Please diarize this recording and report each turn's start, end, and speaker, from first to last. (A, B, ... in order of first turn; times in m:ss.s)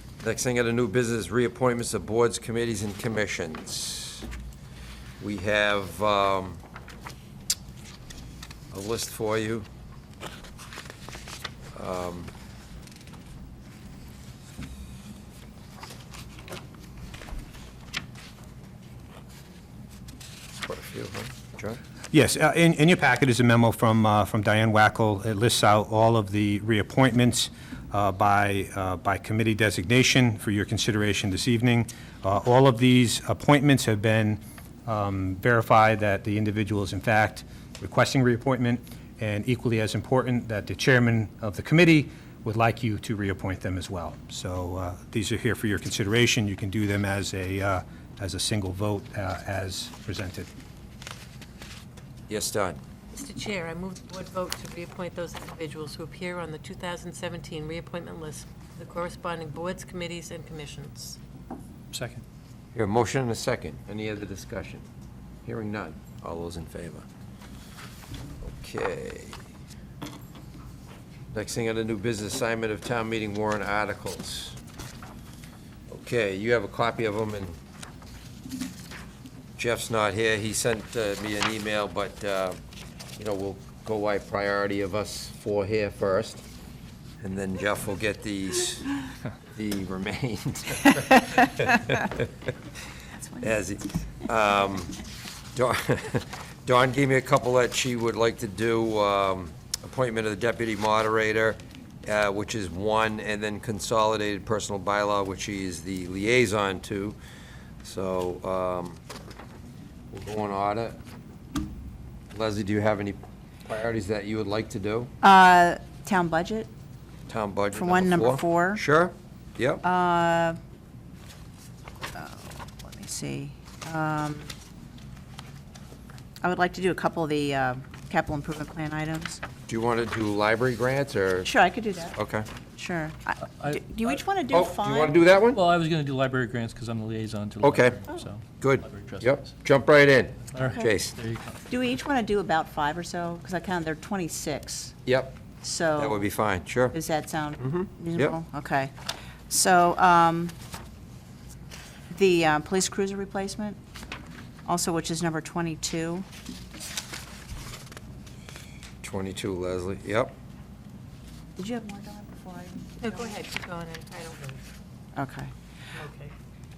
0:00.2-0:04.3 A
0:05.2-0:06.6 A
0:08.7-0:09.7 A
0:11.7-0:12.3 A
0:20.6-0:21.8 A
0:22.1-0:50.5 B
0:52.3-0:52.8 A
0:53.1-1:01.2 C
1:01.9-1:02.2 D
1:02.7-1:04.8 A
1:05.4-1:07.1 A
1:08.4-1:09.4 A
1:11.3-1:14.6 A
1:15.9-1:17.6 A
1:19.6-1:22.6 A
1:23.2-1:26.4 A
1:27.2-1:29.0 A
1:29.5-1:32.2 A
1:33.2-1:33.5 E
1:33.4-1:35.0 A
1:35.5-1:47.2 A
1:47.8-1:49.0 A
1:50.1-1:51.0 A
1:52.3-1:55.1 A
1:55.2-1:56.7 E
1:57.3-1:59.8 A
1:57.7-1:58.8 E
1:59.8-2:00.6 E
2:02.1-2:04.5 E
2:06.4-2:09.4 E
2:09.7-2:11.5 A
2:11.4-2:12.2 E
2:12.1-2:12.5 A
2:12.8-2:15.2 E
2:13.4-2:14.2 D
2:14.5-2:15.6 A
2:15.5-2:19.6 D
2:17.6-2:18.0 A
2:18.6-2:21.2 A
2:20.5-2:21.6 D
2:20.6-2:20.9 E
2:21.7-2:25.0 E
2:25.0-2:25.4 A
2:25.6-2:26.3 E
2:26.0-2:27.0 A
2:26.9-2:28.9 E
2:27.6-2:28.4 A
2:29.5-2:30.5 E
2:32.1-2:33.8 E
2:34.6-2:36.2 E
2:39.0-2:40.3 A
2:41.6-2:43.4 E
2:43.0-2:44.6 C
2:45.2-2:45.5 E
2:45.9-2:46.3 C